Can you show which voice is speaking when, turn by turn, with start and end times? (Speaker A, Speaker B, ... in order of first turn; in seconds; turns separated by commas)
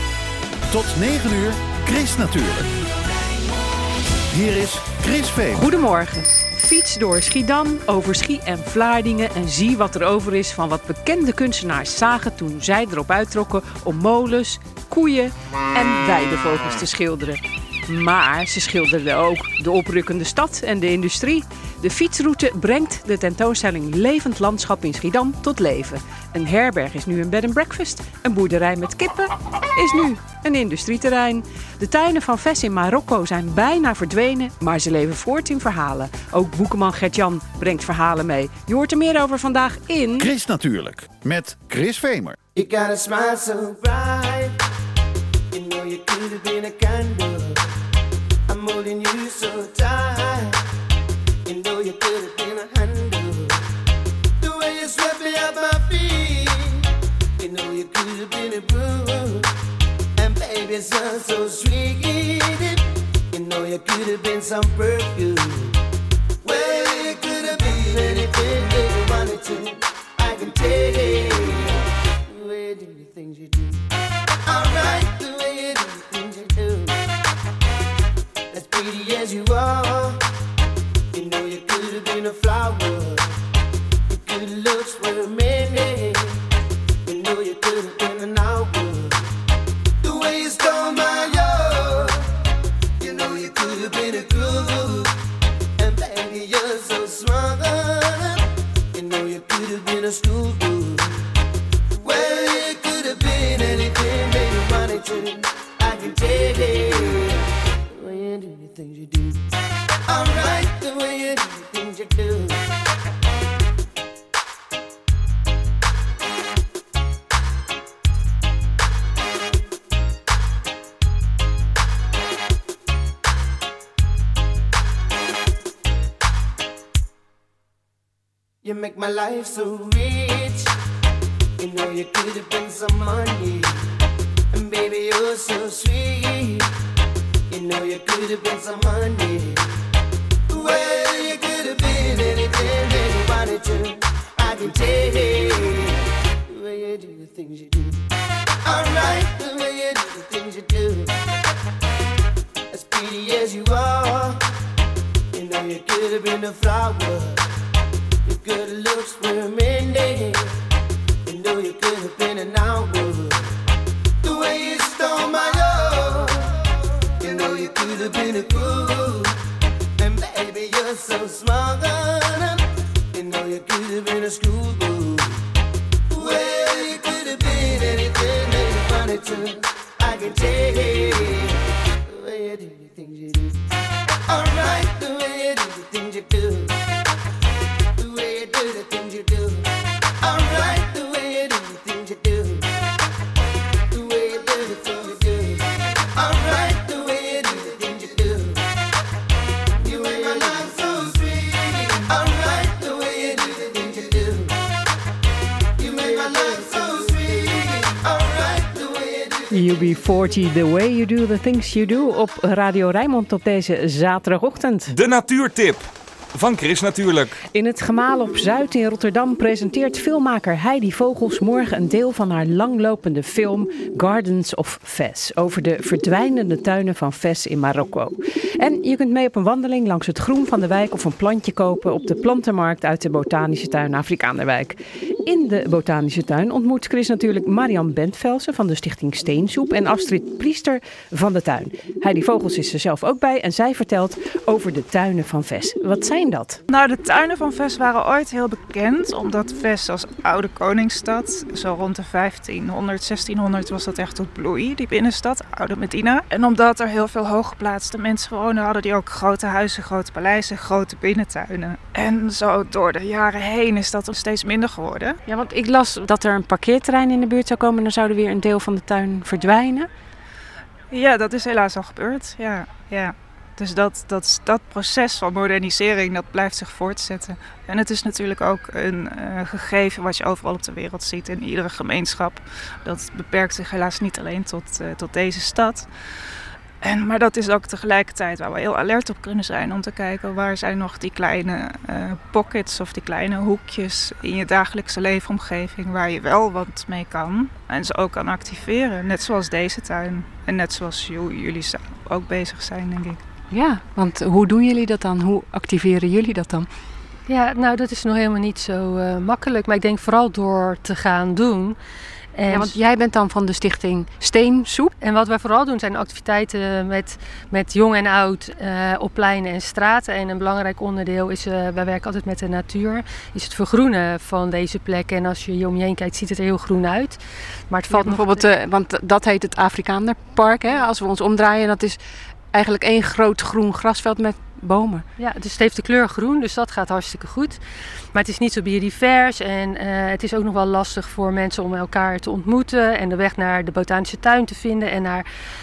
Speaker A: 0.7-2.7, Speaker A: 4.3-5.7, Speaker B: 5.5-40.3, Speaker A: 40.2-42.4, Speaker C: 42.5-44.6, Speaker C: 45.5-47.7, Speaker C: 48.5-50.6, Speaker C: 51.5-53.6, Speaker C: 54.4-59.5, Speaker C: 60.2-65.8, Speaker C: 66.4-73.8, Speaker C: 74.4-77.0, Speaker C: 78.5-80.2, Speaker C: 81.1-83.3, Speaker C: 84.1-86.4, Speaker C: 87.0-89.2, Speaker C: 90.0-92.3, Speaker C: 93.0-95.1, Speaker C: 95.8-101.2, Speaker C: 102.0-109.5, Speaker C: 110.1-112.6, Speaker C: 128.6-130.7, Speaker C: 131.6-133.8, Speaker C: 134.5-136.7, Speaker C: 137.5-139.7, Speaker C: 140.5-148.0, Speaker C: 148.6-151.1, Speaker C: 152.7-154.4, Speaker C: 155.3-157.4, Speaker C: 158.2-160.4, Speaker C: 161.2-163.5, Speaker C: 164.2-166.6, Speaker C: 167.2-169.4, Speaker C: 170.0-175.4, Speaker C: 176.1-183.6, Speaker C: 184.3-186.8, Speaker C: 187.9-189.7, Speaker C: 190.2-192.7, Speaker C: 193.9-198.6, Speaker C: 199.8-204.5, Speaker C: 205.8-209.7, Speaker B: 209.5-214.9, Speaker D: 214.9-217.4, Speaker B: 217.5-246.6, Speaker E: 246.7-265.2, Speaker B: 265.3-269.9, Speaker E: 270.9-285.9, Speaker E: 286.8-303.2, Speaker B: 303.5-306.7, Speaker F: 307.3-311.8, Speaker F: 312.3-312.8, Speaker B: 312.5-314.9, Speaker F: 315.0-328.4, Speaker B: 327.9-332.0, Speaker B: 332.5-335.0, Speaker F: 335.2-337.6, Speaker F: 338.1-345.2